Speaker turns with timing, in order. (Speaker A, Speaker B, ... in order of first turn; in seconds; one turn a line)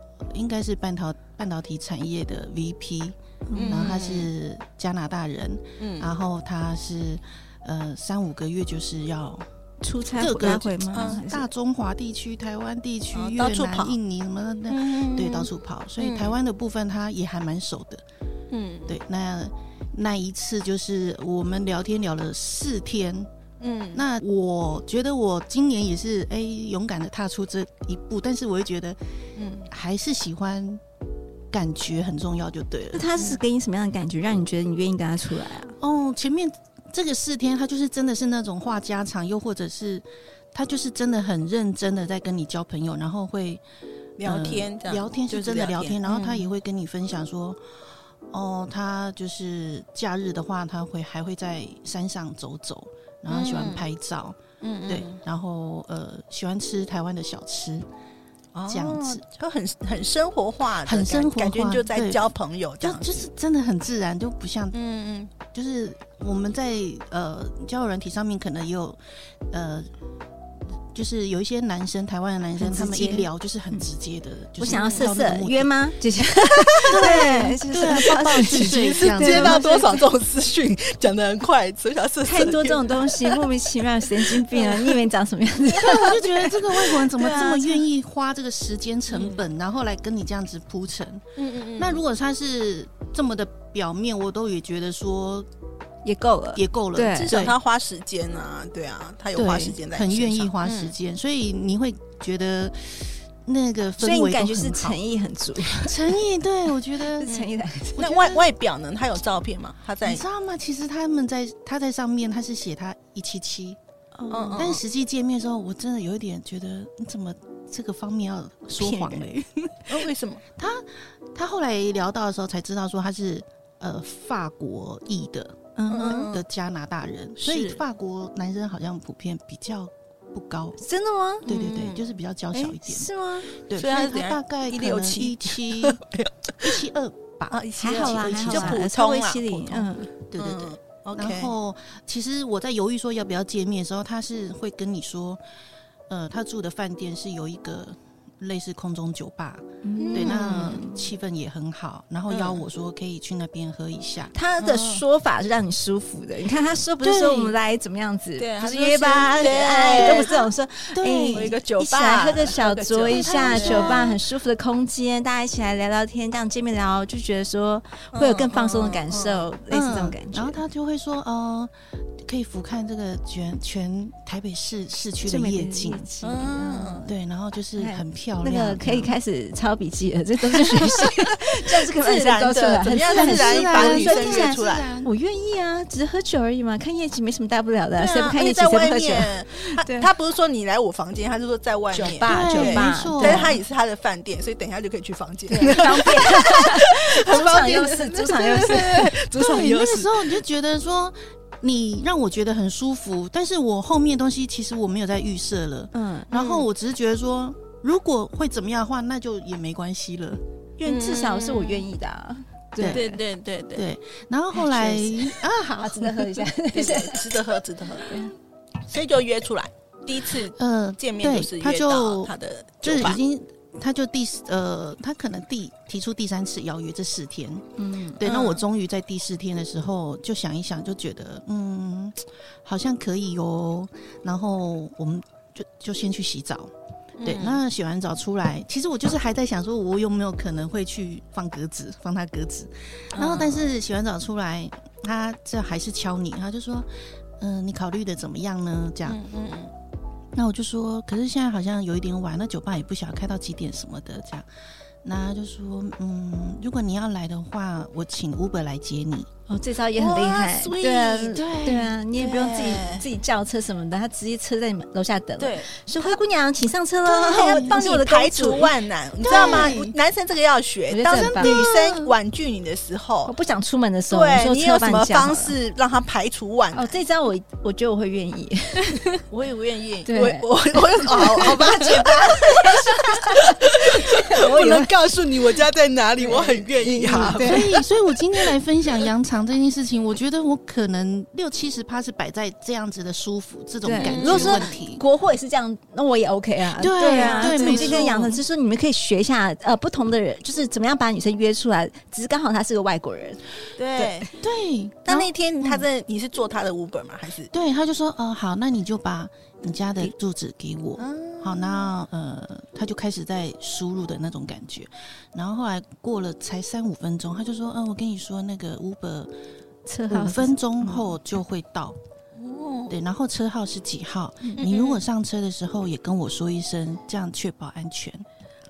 Speaker A: 0.3-3.2
Speaker B: 3.5-3.9
Speaker C: 3.5-4.3
Speaker A: 3.7-9.5
Speaker C: 5.8-6.1
Speaker B: 9.8-11.4
Speaker A: 10.1-18.0
Speaker C: 10.9-11.2
Speaker C: 13.1-14.0
Speaker C: 14.7-15.5
Speaker C: 16.0-16.4
Speaker C: 18.5-18.9
Speaker A: 18.9-23.3
Speaker C: 23.6-24.0
Speaker A: 23.9-29.0
Speaker C: 29.4-29.7
Speaker A: 29.7-30.8
Speaker A: 31.5-33.1
Speaker B: 32.9-35.7
Speaker A: 35.8-43.6
Speaker C: 44.2-46.5
Speaker A: 44.2-47.6
Speaker A: 48.3-57.9
Speaker C: 53.3-53.9
Speaker C: 54.6-55.2
Speaker C: 58.5-63.3
Speaker A: 58.7-59.2
Speaker A: 60.8-62.2
Speaker A: 62.8-64.8
Speaker C: 64.7-65.3
Speaker A: 65.4-69.0
Speaker A: 69.5-69.9
Speaker A: 70.9-75.7
Speaker B: 72.6-73.8
Speaker B: 74.6-80.0
Speaker C: 74.6-75.1
Speaker C: 76.4-83.5
Speaker A: 76.9-79.8
Speaker B: 82.2-86.3
Speaker C: 84.2-85.0
Speaker C: 85.8-87.7
Speaker A: 85.8-91.2
Speaker C: 89.1-89.4
Speaker C: 91.4-92.0
Speaker A: 91.8-95.5
Speaker B: 96.0-97.4
Speaker A: 96.5-97.5
Speaker C: 97.1-100.9
Speaker A: 99.3-105.0
Speaker B: 104.0-106.1
Speaker A: 105.6-107.3
Speaker B: 107.0-108.1
Speaker C: 107.2-110.2
Speaker A: 108.0-108.4
Speaker A: 110.0-113.8
Speaker B: 114.1-114.7
Speaker C: 114.3-114.8
Speaker A: 114.5-119.7
Speaker B: 118.8-119.3
Speaker C: 119.9-120.4
Speaker A: 120.6-130.8
Speaker B: 125.8-126.3
Speaker C: 125.9-126.4
Speaker C: 127.4-127.8
Speaker B: 130.8-131.5
Speaker C: 131.4-132.1
Speaker A: 131.4-133.1
Speaker B: 132.5-133.5
Speaker A: 133.7-136.0
Speaker C: 133.7-136.8
Speaker A: 136.6-138.8
Speaker C: 137.5-141.5
Speaker B: 137.8-140.1
Speaker A: 140.3-145.4
Speaker A: 146.1-154.3
Speaker B: 149.8-151.0
Speaker C: 150.0-150.5
Speaker C: 152.3-152.6
Speaker B: 154.3-170.6
Speaker C: 154.6-155.0
Speaker A: 157.0-157.5
Speaker C: 158.4-160.5
Speaker A: 160.9-161.5
Speaker C: 161.3-164.2
Speaker A: 163.1-164.0
Speaker C: 168.1-169.5
Speaker A: 169.7-171.7
Speaker A: 172.2-176.0
Speaker B: 175.2-177.1
Speaker C: 176.2-177.0
Speaker A: 177.1-179.1
Speaker B: 177.8-190.1
Speaker C: 180.7-184.8
Speaker A: 183.1-185.1
Speaker C: 188.0-200.2
Speaker B: 191.9-193.6
Speaker A: 192.2-193.6
Speaker B: 195.5-199.3
Speaker A: 199.3-210.4
Speaker B: 205.9-206.3
Speaker C: 206.3-206.7
Speaker B: 210.8-213.2
Speaker C: 210.8-211.8
Speaker A: 212.8-213.1
Speaker C: 212.9-213.8
Speaker A: 213.7-216.4
Speaker B: 214.5-217.4
Speaker C: 216.7-218.2
Speaker B: 218.1-218.3
Speaker C: 218.9-223.2
Speaker A: 220.5-222.3
Speaker A: 222.8-227.7
Speaker B: 227.8-228.2
Speaker A: 228.2-236.7
Speaker C: 228.2-228.6
Speaker C: 237.2-237.6
Speaker A: 237.2-246.9
Speaker C: 243.1-243.7
Speaker A: 247.4-249.2
Speaker C: 249.1-249.7
Speaker A: 250.3-254.4
Speaker A: 255.0-259.3
Speaker B: 259.5-268.8
Speaker C: 259.9-261.4
Speaker A: 261.3-261.9
Speaker C: 262.1-263.1
Speaker C: 265.4-266.1
Speaker C: 267.1-273.3
Speaker A: 267.4-267.7
Speaker A: 269.2-269.9
Speaker B: 269.3-269.8
Speaker B: 270.9-271.7
Speaker A: 271.1-272.1
Speaker B: 273.2-275.6
Speaker C: 274.1-276.9
Speaker B: 276.7-279.2
Speaker C: 279.3-287.8
Speaker B: 280.1-284.9
Speaker B: 286.2-287.8
Speaker A: 287.3-295.0
Speaker B: 293.8-303.4
Speaker C: 294.0-294.7
Speaker A: 296.8-298.3
Speaker C: 297.0-298.4
Speaker C: 303.8-304.3
Speaker B: 303.9-304.3
Speaker A: 304.4-305.8
Speaker C: 305.0-307.5
Speaker A: 307.5-319.3
Speaker C: 311.0-311.9
Speaker B: 319.9-321.0
Speaker A: 320.1-322.0
Speaker C: 322.4-322.9
Speaker A: 322.9-328.2
Speaker C: 324.6-325.0